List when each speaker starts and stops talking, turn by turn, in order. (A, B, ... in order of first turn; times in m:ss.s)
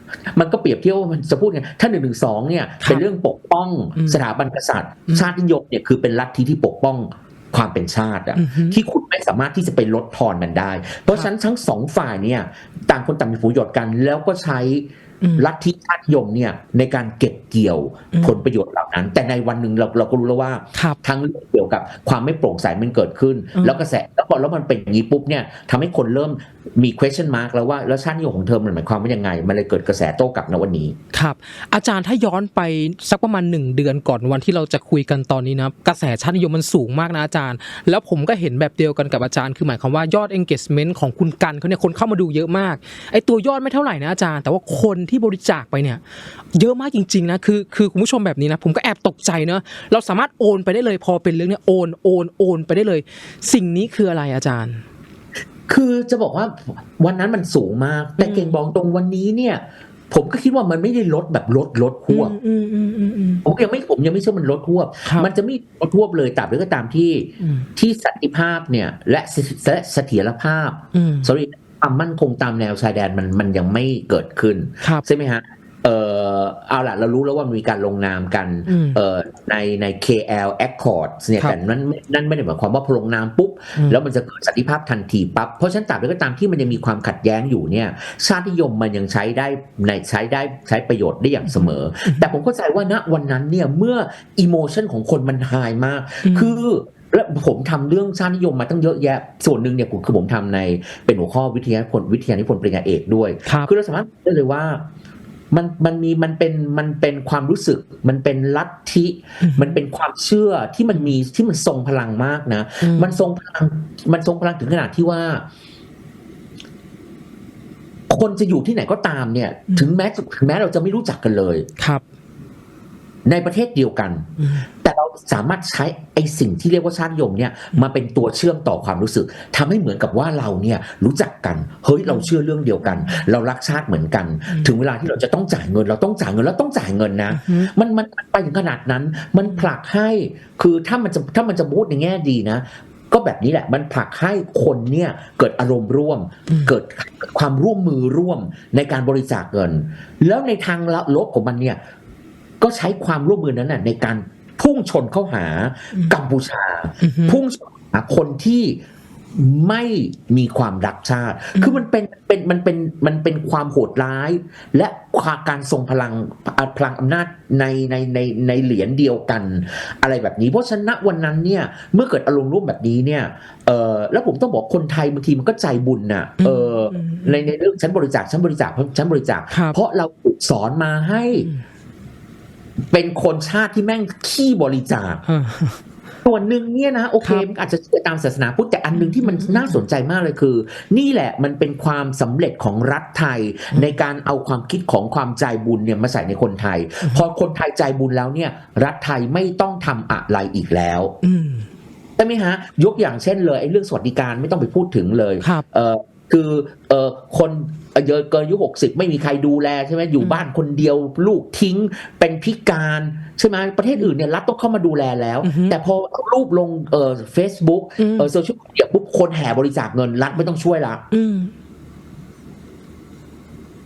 0:00.3-0:31.0 A
0:04.0-0:04.2 B
0:08.4-0:08.8 B
0:15.2-0:15.5 B
0:23.6-0:23.8 B
0:31.1-0:46.0 B
0:46.5-0:54.8 B
0:55.7-1:02.4 A
0:58.2-0:58.6 B
1:02.1-1:03.4 B
1:03.4-1:44.8 A
1:05.0-1:05.3 B
1:07.4-1:07.6 B
1:10.9-1:11.3 B
1:18.7-1:19.0 B
1:31.5-1:32.2 B
1:36.2-1:36.6 B
1:45.5-1:55.4 A
1:49.4-1:49.8 B
1:52.8-1:53.2 B
1:58.1-2:01.7 A
2:01.8-2:02.0 B
2:03.3-2:31.8 A
2:04.4-2:04.6 B
2:12.8-2:13.2 B
2:17.3-2:17.7 B
2:32.6-2:38.8 A
2:37.0-2:37.4 B
2:39.3-3:01.5 A
2:56.4-2:57.4 B
2:59.5-2:59.8 B
3:02.9-3:05.2 A
3:05.3-3:05.8 B
3:06.2-3:21.2 A
3:08.9-3:09.8 B
3:21.2-3:21.7 B
3:22.2-3:41.0 A
3:35.4-3:35.8 B
3:38.0-3:38.3 B
3:41.1-3:41.5 B